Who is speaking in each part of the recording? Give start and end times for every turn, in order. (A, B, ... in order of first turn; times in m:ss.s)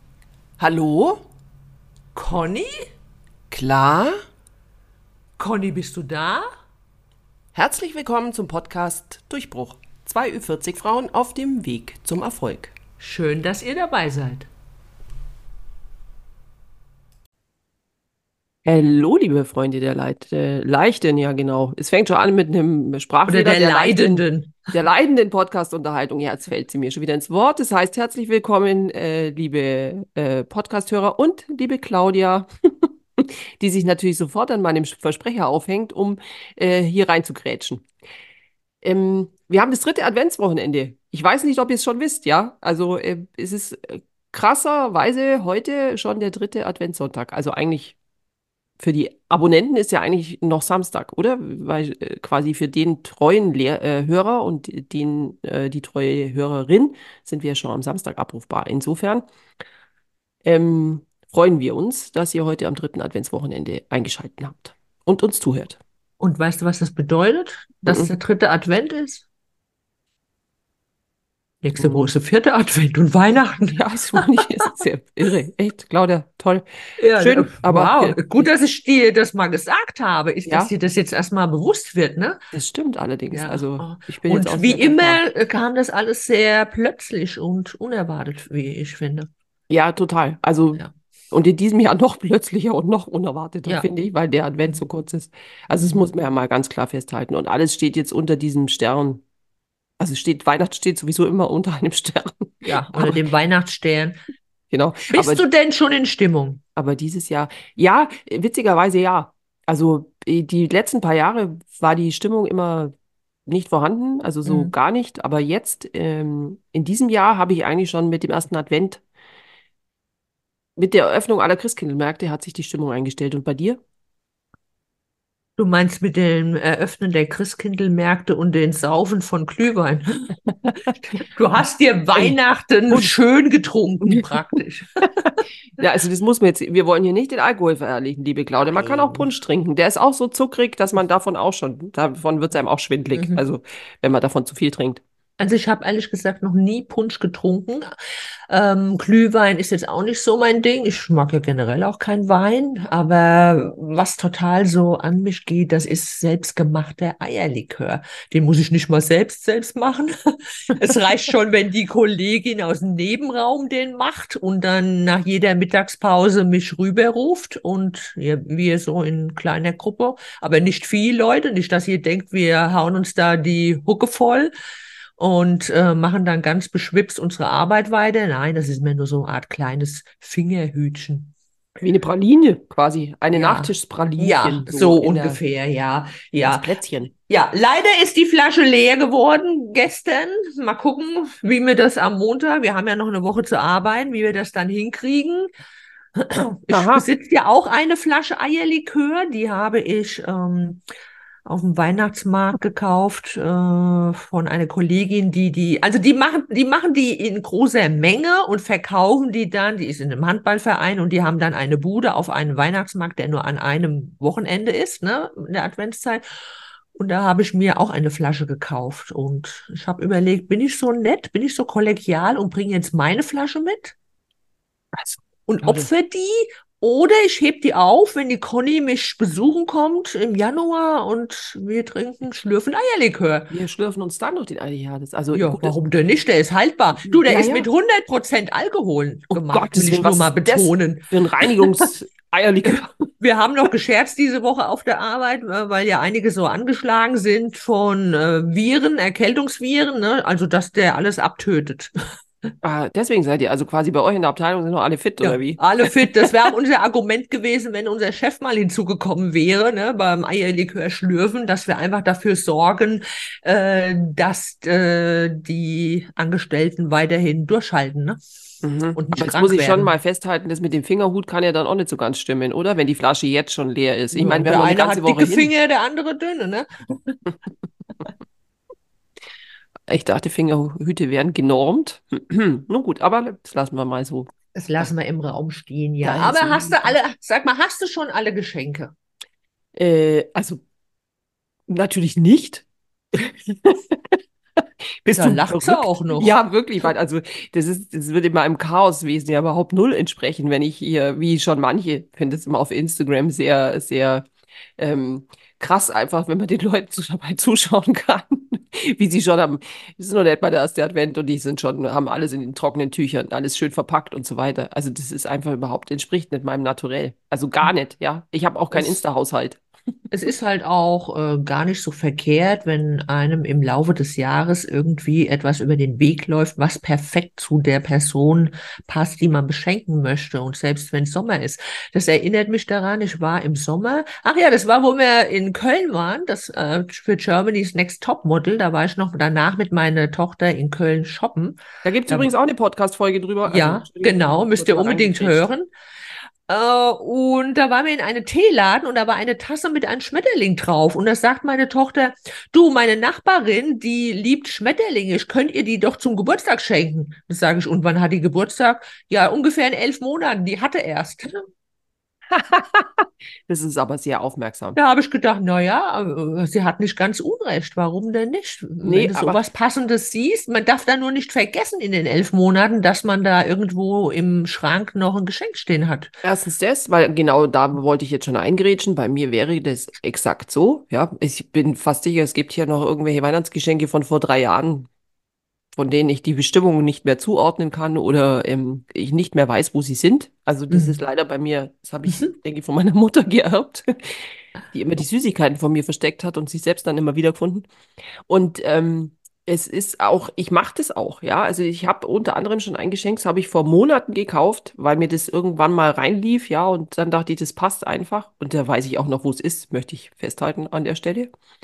0:00.6-0:01.2 A
0:02.1-0:02.9 B
0:03.5-0:04.2 A
0:05.4-0:06.5 B
0:07.5-0:12.7 A
0:13.0-0:14.5 B
0:18.6-0:37.8 A
0:23.3-0:24.6 B
0:38.8-0:48.0 A
0:48.8-0:59.2 A
1:00.4-1:05.8 A
1:06.2-1:09.2 B
1:07.9-1:08.1 A
1:11.6-1:14.2 B
1:11.8-1:12.1 A
1:13.6-1:16.6 A
1:17.0-1:22.4 B
1:17.2-1:18.5 A
1:22.5-1:25.2 A
1:23.3-1:29.3 B
1:29.7-1:39.2 A
1:40.0-1:43.2 A
1:42.6-1:44.2 B
1:44.7-1:45.4 A
1:45.1-1:46.6 B
1:46.8-1:52.9 A
1:53.5-1:59.0 A
1:54.4-1:54.7 B
2:00.8-2:03.8 A
2:05.6-2:15.4 B
2:15.2-2:25.0 A
2:18.6-2:19.3 B
2:23.1-2:23.4 B
2:25.4-2:27.9 B
2:28.5-2:40.1 B
2:40.7-2:54.5 B
2:55.2-3:01.3 B
3:01.8-3:05.4 A
3:03.3-3:15.5 B
3:06.4-3:07.1 A
3:16.2-3:20.8 B
3:16.7-3:17.0 A
3:21.4-3:36.2 B
3:36.9-3:43.9 B
3:44.9-3:45.9 A
3:45.5-3:53.5 B
3:53.5-3:55.7 A
3:55.3-4:01.8 B
3:57.0-3:57.7 A
3:59.3-4:03.1 A
4:03.2-4:11.9 B
4:12.6-4:16.2 A
4:15.2-4:28.2 B
4:28.6-4:35.5 A
4:28.9-4:29.9 B
4:34.1-4:37.2 B
4:39.9-4:44.9 A
4:44.5-4:48.9 B
4:46.0-4:46.9 A
4:49.8-4:50.6 A
4:51.7-5:04.2 A
4:55.2-4:56.3 B
5:04.8-5:19.6 A
5:20.1-5:42.3 B
5:41.8-5:45.5 A
5:43.4-5:45.7 B
5:46.5-6:01.3 B
6:02.3-6:04.8 A
6:04.8-6:16.1 B
6:08.8-6:09.4 A
6:16.2-6:24.9 A
6:25.8-6:37.6 A
6:30.7-6:31.0 B
6:38.3-6:51.3 A